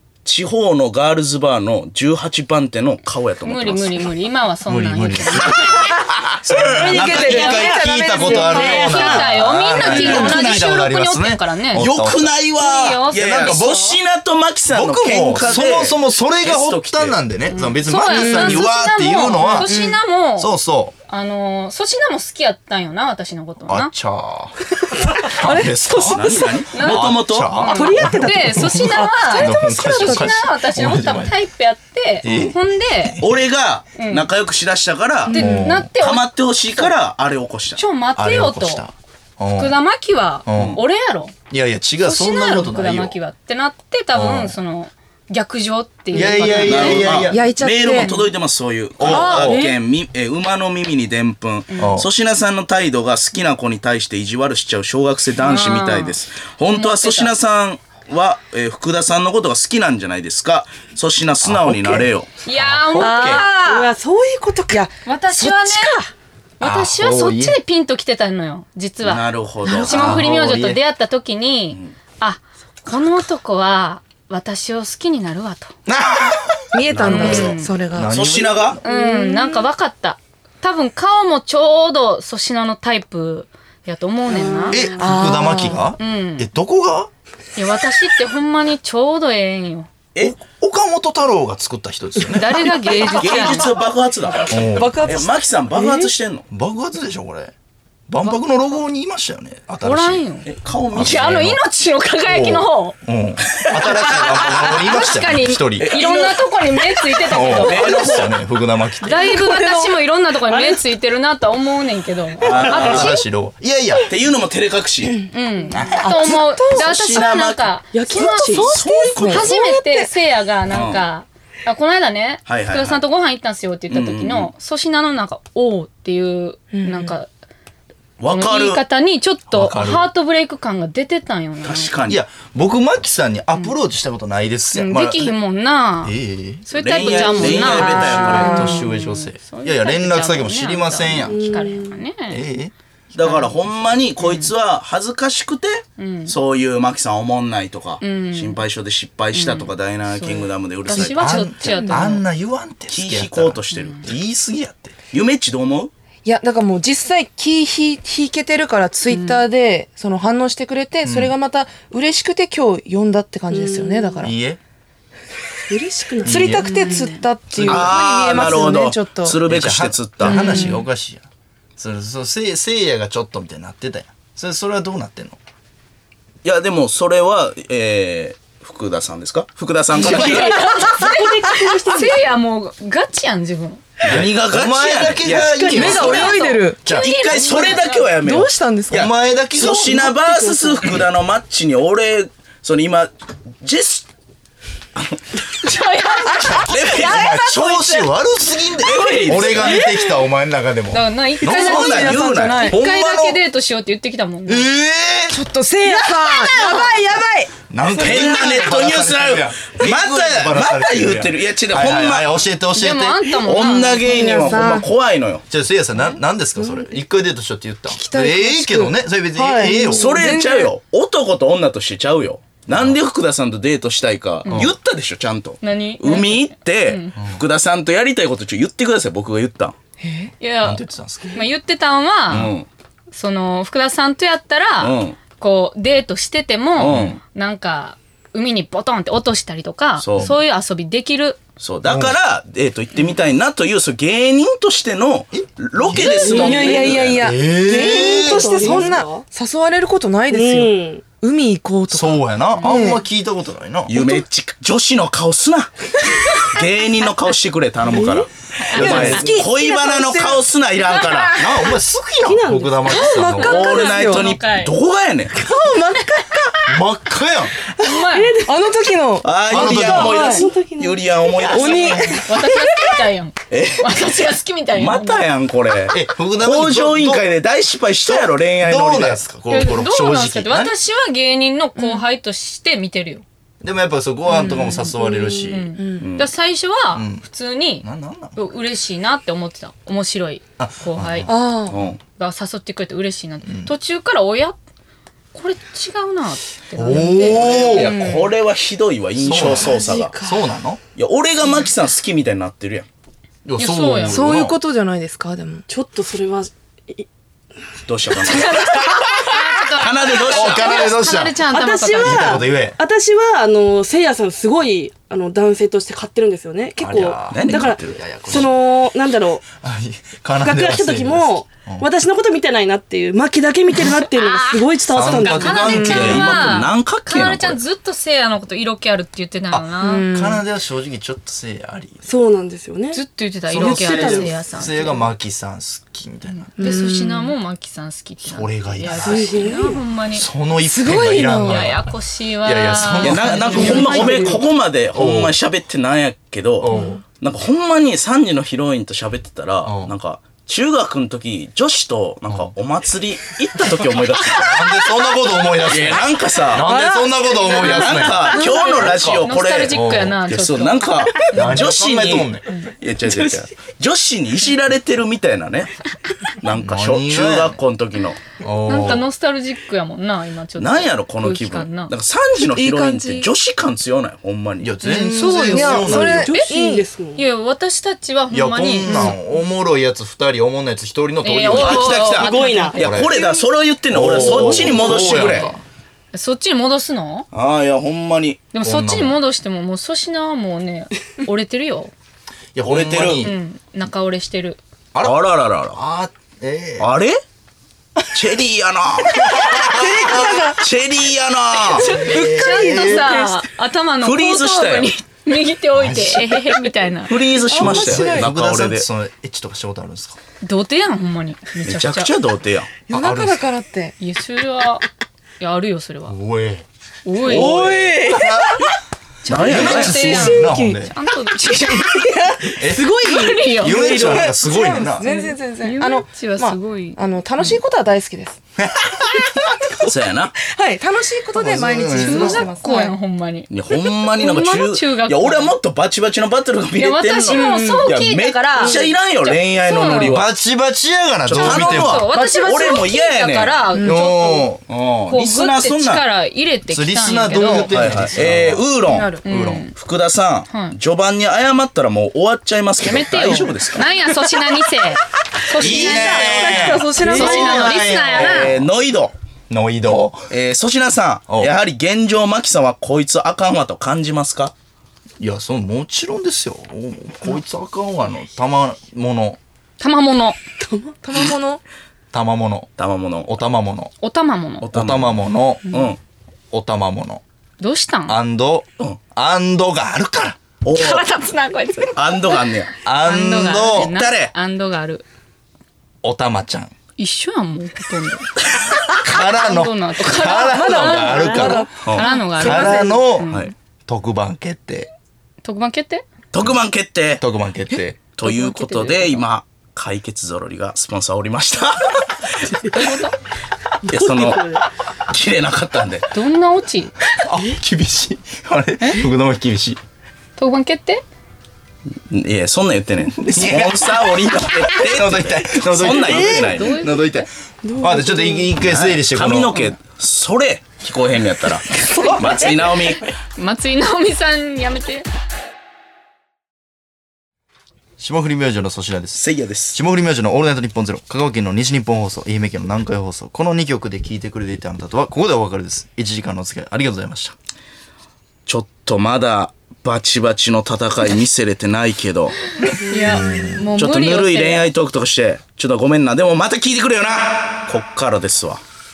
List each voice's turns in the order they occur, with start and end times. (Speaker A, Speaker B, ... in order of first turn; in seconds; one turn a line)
Speaker A: 0.2-4.0
Speaker B: 3.4-5.8
Speaker C: 4.7-5.9
Speaker C: 6.4-12.4
Speaker D: 6.5-9.0
Speaker A: 6.5-7.1
Speaker B: 7.1-7.6
Speaker E: 7.2-9.4
Speaker B: 8.2-11.9
Speaker A: 9.8-10.6
Speaker A: 11.7-17.2
Speaker B: 12.6-13.9
Speaker C: 13.2-13.8
Speaker C: 14.7-19.7
Speaker B: 17.5-20.5
Speaker D: 18.1-18.7
Speaker D: 19.4-20.0
Speaker C: 20.4-20.9
Speaker B: 21.1-23.9
Speaker C: 23.7-31.3
Speaker D: 25.0-26.6
Speaker A: 26.1-27.6
Speaker B: 26.7-33.2
Speaker E: 27.6-28.8
Speaker D: 28.9-30.4
Speaker C: 32.2-33.2
Speaker A: 33.2-35.4
Speaker B: 34.0-34.3
Speaker D: 35.3-35.7
Speaker B: 35.3-36.3
Speaker C: 35.3-35.9
Speaker A: 35.9-37.8
Speaker B: 37.8-38.8
Speaker C: 38.1-39.8
Speaker B: 39.6-41.3
Speaker C: 40.5-40.8
Speaker A: 40.5-40.8
Speaker C: 41.5-43.1
Speaker B: 42.0-47.2
Speaker C: 44.1-44.5
Speaker C: 46.1-47.4
Speaker D: 46.1-48.1
Speaker A: 46.6-62.3
Speaker B: 48.0-48.3
Speaker C: 49.0-49.6
Speaker D: 49.1-49.7
Speaker B: 49.1-49.6
Speaker B: 51.7-52.0
Speaker C: 51.8-52.1
Speaker B: 55.4-56.1
Speaker B: 56.7-57.3
Speaker C: 61.4-63.5
Speaker B: 62.4-63.9
Speaker D: 62.9-63.5
Speaker E: 63.5-64.8
Speaker D: 64.7-66.1
Speaker B: 65.0-66.0
Speaker B: 66.6-75.7
Speaker C: 66.6-67.6
Speaker A: 69.0-70.2
Speaker C: 69.8-70.8
Speaker C: 75.9-78.8
Speaker D: 76.7-78.1
Speaker B: 77.0-77.7
Speaker A: 77.1-77.6
Speaker A: 78.1-78.8
Speaker B: 78.8-84.9
Speaker D: 78.8-79.4
Speaker E: 78.9-79.5
Speaker E: 84.3-85.1
Speaker C: 84.7-87.1
Speaker D: 84.9-85.9
Speaker B: 86.0-86.5
Speaker B: 87.5-89.9
Speaker C: 90.2-92.8
Speaker B: 92.3-93.8
Speaker A: 93.1-96.5
Speaker C: 94.5-95.1
Speaker D: 94.8-95.3
Speaker E: 95.7-96.1
Speaker C: 96.5-97.5
Speaker C: 98.1-100.2
Speaker B: 99.8-103.0
Speaker A: 100.4-101.4
Speaker C: 100.9-101.6
Speaker C: 102.2-105.9
Speaker A: 103.5-104.8
Speaker B: 103.8-108.3
Speaker A: 105.8-106.4
Speaker C: 107.3-109.3
Speaker A: 107.4-108.3
Speaker B: 109.0-113.2
Speaker D: 109.3-109.9
Speaker E: 110.5-110.8
Speaker A: 112.4-113.1
Speaker C: 112.6-114.1
Speaker A: 114.1-115.2
Speaker D: 115.2-116.9
Speaker B: 115.3-127.3
Speaker C: 115.7-116.0
Speaker A: 116.7-117.7
Speaker E: 117.9-118.8
Speaker D: 118.1-120.1
Speaker A: 118.7-119.5
Speaker A: 120.7-121.0
Speaker A: 122.5-123.0
Speaker A: 123.9-124.5
Speaker D: 126.7-127.2
Speaker A: 128.2-128.8
Speaker B: 128.3-131.9
Speaker C: 129.5-130.1
Speaker A: 131.6-132.2
Speaker C: 132.1-135.3
Speaker B: 134.7-142.4
Speaker C: 136.0-141.5
Speaker A: 136.7-138.6
Speaker D: 138.1-138.9
Speaker E: 141.3-142.0
Speaker C: 142.3-142.7
Speaker A: 143.1-151.5
Speaker B: 144.2-144.5
Speaker B: 146.0-146.3
Speaker B: 148.0-148.6
Speaker B: 149.3-152.2
Speaker C: 150.9-154.9
Speaker A: 152.9-154.1
Speaker B: 153.7-154.0
Speaker A: 155.1-155.9
Speaker D: 156.2-164.3
Speaker B: 159.1-159.4
Speaker C: 161.0-161.3
Speaker E: 163.5-164.3
Speaker C: 164.2-164.6
Speaker E: 165.7-167.1
Speaker C: 166.2-166.9
Speaker D: 166.2-169.4
Speaker B: 166.7-167.2
Speaker C: 167.5-168.1
Speaker A: 167.6-170.7
Speaker C: 169.4-171.2
Speaker D: 170.2-170.8
Speaker C: 171.8-175.4
Speaker A: 176.4-180.8
Speaker B: 179.9-183.9
Speaker E: 180.0-182.1
Speaker C: 180.1-180.4
Speaker D: 180.2-182.1
Speaker A: 184.0-186.3
Speaker C: 184.0-187.1
Speaker E: 185.5-186.0
Speaker D: 185.7-186.8
Speaker B: 185.8-188.1
Speaker A: 186.8-194.1
Speaker D: 188.2-189.1
Speaker C: 188.9-190.5
Speaker D: 190.5-190.9
Speaker A: 194.9-195.4
Speaker B: 195.6-198.1
Speaker D: 196.3-196.8
Speaker A: 196.5-197.6
Speaker C: 196.9-203.4
Speaker A: 198.8-199.8
Speaker B: 199.1-199.7
Speaker B: 200.9-204.7
Speaker D: 201.4-202.8
Speaker A: 201.5-202.7
Speaker C: 204.5-205.4
Speaker D: 205.3-208.5
Speaker C: 207.7-213.4
Speaker A: 207.9-212.3
Speaker B: 212.7-214.6
Speaker A: 213.4-215.4
Speaker D: 214.0-214.9
Speaker C: 215.5-220.2
Speaker D: 217.9-220.7
Speaker A: 219.9-229.8
Speaker C: 222.7-223.0
Speaker B: 225.6-227.2
Speaker C: 227.2-227.4
Speaker D: 230.0-230.3
Speaker B: 230.4-232.5
Speaker C: 230.6-231.4
Speaker A: 232.3-232.7
Speaker B: 233.1-241.4
Speaker A: 234.8-235.2
Speaker A: 236.8-237.2
Speaker C: 236.8-237.1
Speaker A: 240.0-240.3
Speaker A: 241.6-247.3
Speaker C: 241.8-242.2
Speaker C: 245.3-246.4
Speaker D: 246.0-253.0
Speaker E: 246.0-249.2
Speaker C: 247.1-248.9
Speaker E: 250.3-251.0
Speaker C: 251.9-253.9
Speaker B: 252.6-252.9
Speaker A: 253.9-261.6
Speaker E: 257.9-258.3
Speaker C: 258.7-259.4
Speaker D: 258.7-261.6
Speaker C: 261.2-263.6
Speaker E: 262.2-263.1
Speaker D: 262.9-264.3
Speaker A: 263.3-265.4
Speaker B: 263.5-264.7
Speaker D: 265.3-266.8
Speaker C: 266.7-267.5
Speaker B: 267.8-268.4
Speaker E: 268.1-268.5
Speaker D: 268.4-270.5
Speaker A: 269.2-272.3
Speaker C: 269.5-270.4
Speaker E: 269.6-271.9
Speaker D: 271.4-273.0
Speaker B: 272.1-275.2
Speaker A: 273.5-274.2
Speaker A: 274.7-279.2
Speaker C: 275.9-277.3
Speaker C: 278.1-280.7
Speaker B: 279.5-283.2
Speaker C: 283.6-285.7
Speaker D: 284.3-286.1
Speaker B: 284.5-294.6
Speaker A: 286.0-286.3
Speaker C: 286.9-287.2
Speaker C: 287.8-288.4
Speaker C: 290.6-291.3
Speaker D: 291.3-291.8
Speaker A: 291.7-292.0
Speaker C: 293.4-293.7
Speaker B: 295.3-298.3
Speaker C: 296.8-298.0
Speaker D: 296.9-297.3
Speaker A: 297.2-300.1
Speaker C: 299.2-300.8
Speaker E: 299.3-300.5
Speaker A: 300.9-302.9
Speaker C: 303.4-304.6
Speaker B: 303.6-304.4
Speaker D: 304.1-305.6
Speaker E: 305.7-307.1
Speaker A: 307.9-308.8
Speaker D: 308.2-309.7
Speaker B: 308.3-312.4
Speaker A: 309.7-310.9
Speaker C: 310.2-311.4
Speaker E: 311.4-319.4
Speaker C: 312.0-312.8
Speaker C: 316.8-318.6
Speaker A: 317.3-318.0
Speaker C: 319.6-321.9
Speaker E: 320.4-326.2
Speaker B: 323.8-330.1
Speaker C: 324.9-326.5
Speaker A: 325.8-327.6
Speaker C: 329.5-332.0
Speaker D: 329.8-330.4
Speaker E: 332.1-333.0
Speaker B: 332.9-335.0
Speaker C: 333.5-336.5
Speaker E: 333.5-334.3
Speaker B: 336.3-340.3
Speaker D: 336.6-337.3
Speaker C: 338.2-341.9
Speaker E: 338.9-339.8
Speaker D: 340.6-341.7
Speaker B: 340.9-344.4
Speaker C: 342.4-344.2
Speaker A: 343.0-354.8
Speaker D: 343.6-344.4
Speaker C: 344.9-345.3
Speaker C: 346.6-347.0
Speaker D: 346.7-347.0
Speaker C: 349.6-349.9
Speaker C: 354.4-360.2
Speaker A: 355.6-356.7
Speaker D: 356.7-357.1
Speaker E: 356.7-357.2
Speaker A: 357.5-365.8
Speaker B: 357.7-361.1
Speaker D: 358.3-358.7
Speaker C: 361.3-362.5
Speaker A: 366.3-368.2
Speaker C: 366.6-367.6
Speaker C: 368.4-369.1
Speaker B: 368.6-371.9
Speaker A: 370.6-374.7
Speaker D: 372.4-373.3
Speaker C: 374.6-376.3
Speaker B: 374.8-376.5
Speaker D: 374.9-376.8
Speaker E: 375.4-377.2
Speaker B: 377.1-379.2
Speaker C: 378.3-383.2
Speaker D: 378.8-379.1
Speaker B: 381.2-383.1
Speaker A: 381.5-385.5
Speaker E: 382.1-383.3
Speaker C: 383.9-385.6
Speaker B: 384.9-385.5
Speaker B: 386.1-387.3
Speaker A: 387.3-388.4
Speaker B: 388.5-391.9
Speaker C: 388.6-389.2
Speaker C: 392.5-393.4
Speaker A: 392.6-393.3
Speaker B: 393.2-394.6
Speaker A: 395.0-395.8
Speaker C: 395.7-396.9
Speaker A: 396.8-397.2
Speaker A: 398.1-401.9
Speaker C: 399.2-400.5
Speaker D: 399.5-400.6
Speaker B: 401.7-407.2
Speaker C: 401.9-403.2
Speaker D: 401.9-403.4
Speaker A: 404.0-404.9
Speaker C: 405.7-406.4
Speaker A: 407.1-408.9
Speaker D: 407.5-408.3
Speaker C: 407.5-410.2
Speaker B: 410.4-412.1
Speaker A: 411.6-412.7
Speaker D: 412.9-413.9
Speaker C: 412.9-413.4
Speaker B: 414.0-414.8
Speaker B: 415.4-416.2
Speaker C: 416.1-416.6
Speaker B: 417.0-417.6
Speaker D: 417.2-418.7
Speaker A: 417.2-418.1
Speaker C: 418.0-418.7
Speaker B: 419.2-422.2
Speaker A: 419.2-420.3
Speaker C: 419.3-420.9
Speaker D: 420.0-420.8
Speaker D: 421.8-428.4
Speaker C: 422.6-423.0
Speaker B: 422.7-424.2
Speaker C: 423.5-425.1
Speaker B: 425.0-427.6
Speaker C: 428.6-429.6
Speaker D: 429.3-432.9
Speaker A: 429.8-430.4
Speaker C: 431.3-432.5
Speaker B: 432.0-435.5
Speaker A: 433.5-440.3
Speaker B: 436.7-440.2
Speaker D: 437.3-437.9
Speaker C: 440.0-442.1
Speaker A: 441.2-443.6
Speaker B: 441.3-444.5
Speaker D: 442.1-442.8
Speaker D: 443.7-444.1
Speaker C: 443.8-444.6
Speaker A: 444.7-446.0
Speaker B: 445.1-448.0
Speaker C: 446.7-448.7
Speaker A: 447.5-449.2
Speaker D: 448.9-449.2
Speaker C: 449.2-449.7
Speaker B: 449.2-449.7
Speaker A: 449.7-454.1
Speaker B: 450.5-450.8
Speaker B: 452.8-458.6
Speaker A: 455.5-459.1
Speaker D: 455.6-457.7
Speaker C: 455.6-458.6
Speaker E: 457.0-457.5
Speaker C: 459.5-460.3
Speaker A: 460.3-464.5
Speaker C: 465.2-469.4
Speaker B: 469.8-470.4
Speaker D: 470.7-471.6
Speaker C: 472.1-472.7
Speaker A: 472.8-473.3
Speaker C: 473.2-473.9
Speaker B: 474.0-474.7
Speaker A: 474.6-476.0
Speaker C: 474.7-475.6
Speaker C: 476.5-477.2
Speaker B: 477.6-478.2
Speaker C: 478.1-480.4
Speaker A: 480.6-481.0
Speaker B: 480.7-485.0
Speaker A: 481.9-482.7
Speaker C: 482.8-483.9
Speaker A: 483.8-484.3
Speaker C: 486.0-486.7
Speaker B: 487.0-488.3
Speaker C: 488.9-491.7
Speaker B: 489.0-493.5
Speaker D: 490.4-493.0
Speaker A: 491.8-492.1
Speaker C: 492.4-493.3
Speaker A: 493.2-493.5
Speaker C: 493.9-494.9
Speaker B: 495.4-496.0
Speaker A: 496.3-497.2
Speaker C: 497.2-498.0
Speaker A: 498.1-502.6
Speaker B: 498.2-499.2
Speaker B: 502.7-503.1
Speaker E: 503.9-504.6
Speaker A: 503.9-506.1
Speaker B: 506.1-506.9
Speaker C: 507.2-509.8
Speaker B: 508.8-509.1
Speaker B: 510.4-511.0
Speaker A: 512.1-516.8
Speaker C: 513.1-519.6
Speaker E: 516.1-516.4
Speaker B: 516.3-517.2
Speaker E: 517.6-518.5
Speaker A: 518.6-523.1
Speaker D: 521.8-522.5
Speaker B: 523.4-525.1
Speaker C: 528.0-537.3
Speaker A: 529.1-529.8
Speaker A: 538.5-542.4
Speaker B: 542.7-544.7
Speaker C: 543.1-543.6
Speaker A: 543.7-548.6